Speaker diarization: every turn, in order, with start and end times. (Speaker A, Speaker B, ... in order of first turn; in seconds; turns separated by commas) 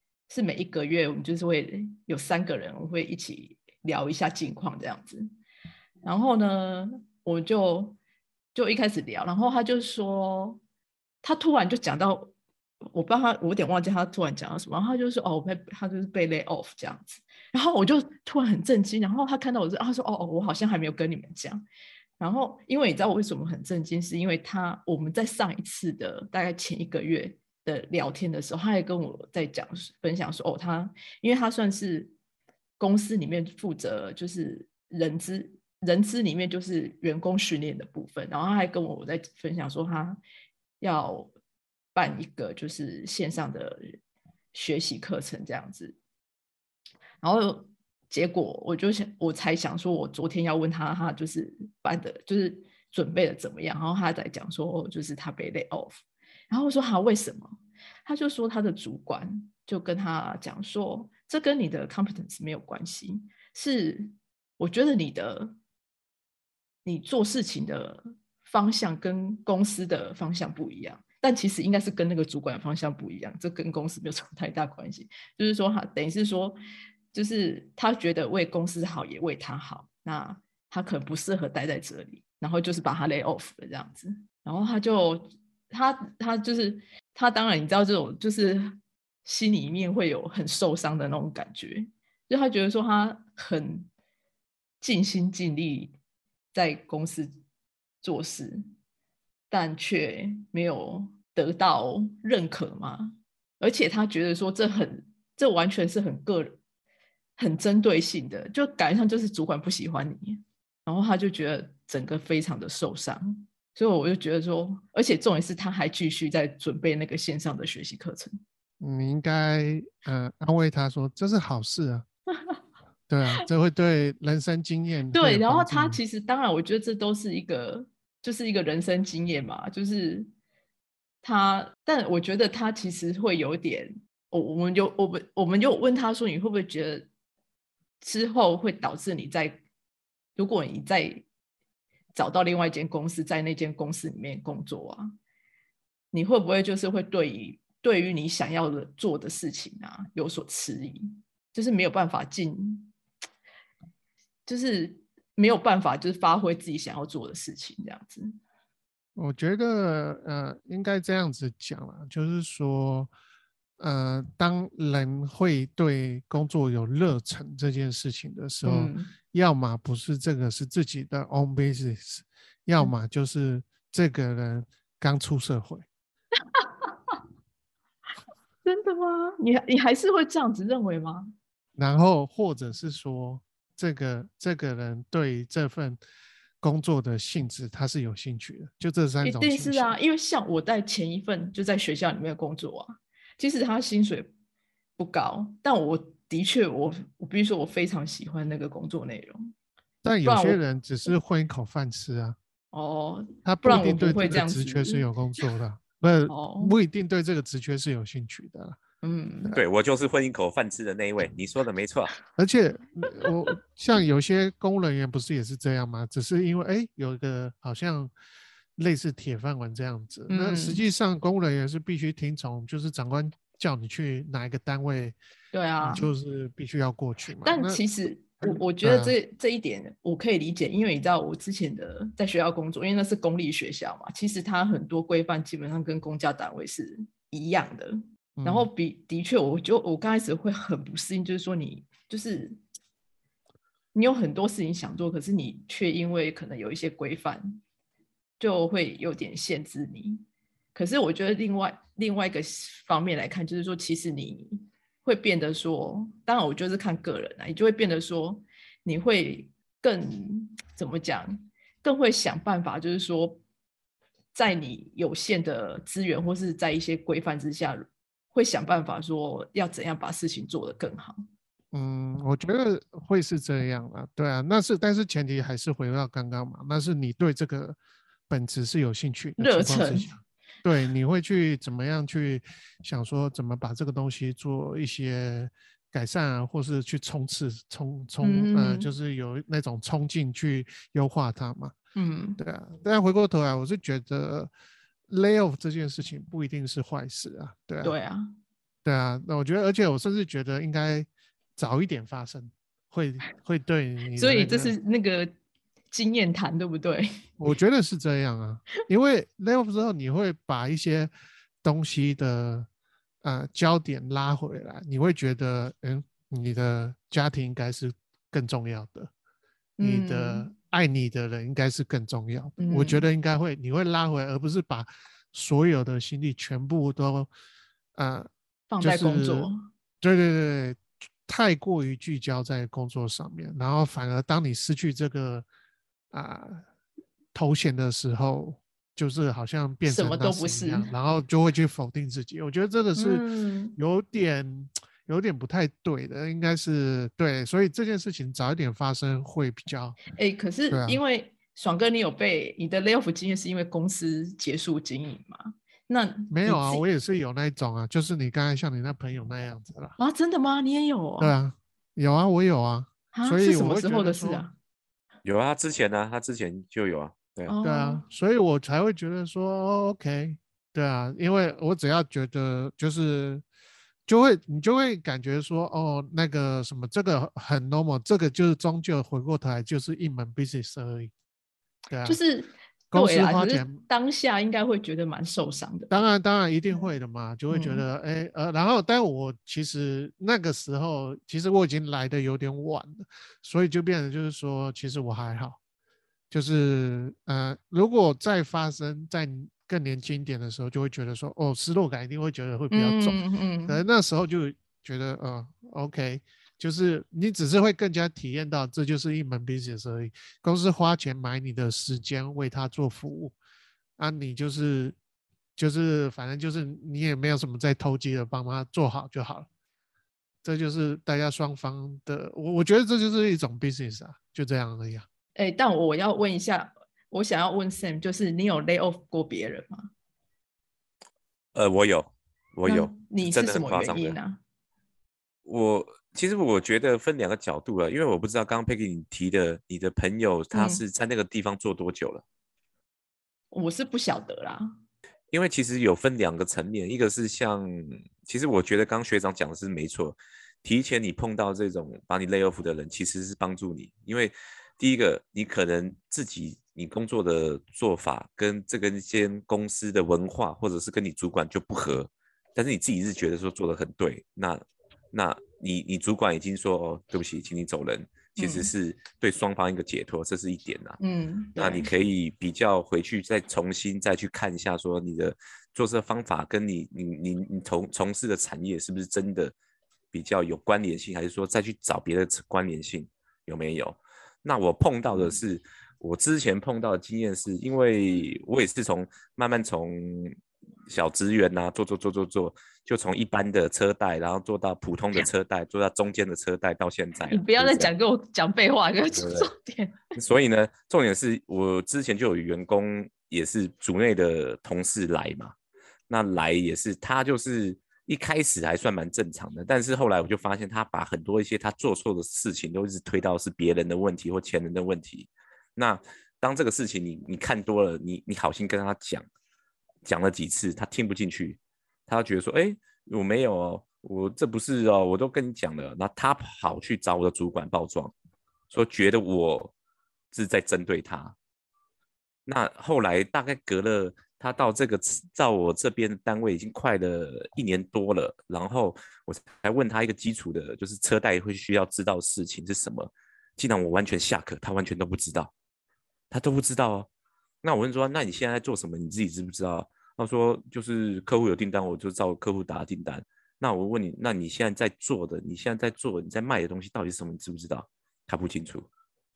Speaker A: 0.3-5.3, Speaker A: 6.0-8.0, Speaker A: 8.5-10.6, Speaker A: 11.2-12.3, Speaker A: 12.9-21.6, Speaker A: 22.2-32.1, Speaker A: 32.8-40.2, Speaker A: 40.8-41.3, Speaker A: 41.9-44.0, Speaker A: 44.5-46.0, Speaker A: 47.2-65.5, Speaker A: 66.8-76.6, Speaker A: 77.1-93.9, Speaker A: 94.8-95.9, Speaker A: 96.5-97.3, Speaker A: 98.0-98.6, Speaker A: 99.5-106.6, Speaker A: 107.4-118.4, Speaker B: 118.8-122.0, Speaker B: 123.1-126.0, Speaker A: 125.1-130.3, Speaker A: 131.2-137.1, Speaker A: 138.0-139.6, Speaker A: 140.4-141.2, Speaker A: 142.1-145.1, Speaker A: 146.1-152.9, Speaker A: 154.4-158.4, Speaker B: 159.2-163.1, Speaker B: 163.8-175.8, Speaker A: 168.6-169.1, Speaker A: 176.6-177.1, Speaker A: 178.6-181.3, Speaker B: 181.8-186.0, Speaker B: 186.6-189.9, Speaker A: 189.2-194.3, Speaker A: 195.0-199.5, Speaker B: 200.0-202.4, Speaker A: 200.2-200.6, Speaker A: 202.7-205.0, Speaker B: 203.4-208.8, Speaker A: 206.3-206.8, Speaker A: 209.0-209.6, Speaker C: 209.5-212.1, Speaker B: 212.4-218.1, Speaker B: 218.8-225.2, Speaker A: 220.3-220.8, Speaker A: 225.5-226.1, Speaker B: 225.8-227.8, Speaker A: 227.4-242.6, Speaker B: 228.4-229.1, Speaker B: 238.4-238.7, Speaker A: 243.9-247.6, Speaker A: 248.4-250.2, Speaker A: 250.7-263.4, Speaker A: 264.3-271.2, Speaker B: 271.7-277.8, Speaker B: 278.3-291.7, Speaker A: 279.4-280.1, Speaker A: 288.2-288.9, Speaker A: 291.9-292.4, Speaker B: 292.4-294.5, Speaker B: 295.1-297.9, Speaker A: 297.8-298.3, Speaker B: 298.9-304.7, Speaker A: 304.2-305.3, Speaker A: 305.9-307.1, Speaker B: 307.4-311.1, Speaker B: 311.6-312.7, Speaker B: 313.2-319.1, Speaker A: 319.8-320.5, Speaker B: 319.8-327.3, Speaker A: 322.6-323.1, Speaker B: 327.9-328.3, Speaker A: 328.7-329.7, Speaker B: 328.8-335.4, Speaker B: 336.1-336.6, Speaker B: 337.3-343.2, Speaker A: 339.9-340.9, Speaker A: 342.9-343.8, Speaker B: 343.8-350.0, Speaker A: 350.1-356.8, Speaker B: 350.7-351.0, Speaker B: 356.3-359.9, Speaker A: 360.0-361.4, Speaker B: 361.2-364.4, Speaker A: 363.1-364.5, Speaker C: 365.2-367.5, Speaker A: 367.5-368.0, Speaker B: 367.6-373.4, Speaker B: 374.1-381.1, Speaker B: 381.9-382.2, Speaker A: 382.1-385.9, Speaker B: 382.9-383.8, Speaker B: 385.9-395.6, Speaker A: 387.5-387.8, Speaker B: 396.3-413.4, Speaker A: 402.7-403.8, Speaker B: 414.0-415.0, Speaker B: 415.6-419.5, Speaker B: 420.4-425.1, Speaker A: 425.4-429.9, Speaker C: 431.5-434.2, Speaker A: 432.6-434.4, Speaker C: 435.4-442.2, Speaker A: 440.5-440.8, Speaker A: 443.5-444.7, Speaker C: 445.3-471.0, Speaker A: 468.4-468.7, Speaker A: 471.0-471.9, Speaker C: 471.6-479.5, Speaker C: 480.1-497.9, Speaker A: 497.3-500.0, Speaker C: 499.1-499.5, Speaker C: 500.1-505.5, Speaker C: 506.1-519.2, Speaker C: 520.0-528.1, Speaker C: 528.7-529.7, Speaker C: 530.3-531.4, Speaker C: 532.5-545.5, Speaker C: 546.3-547.1, Speaker C: 547.6-558.9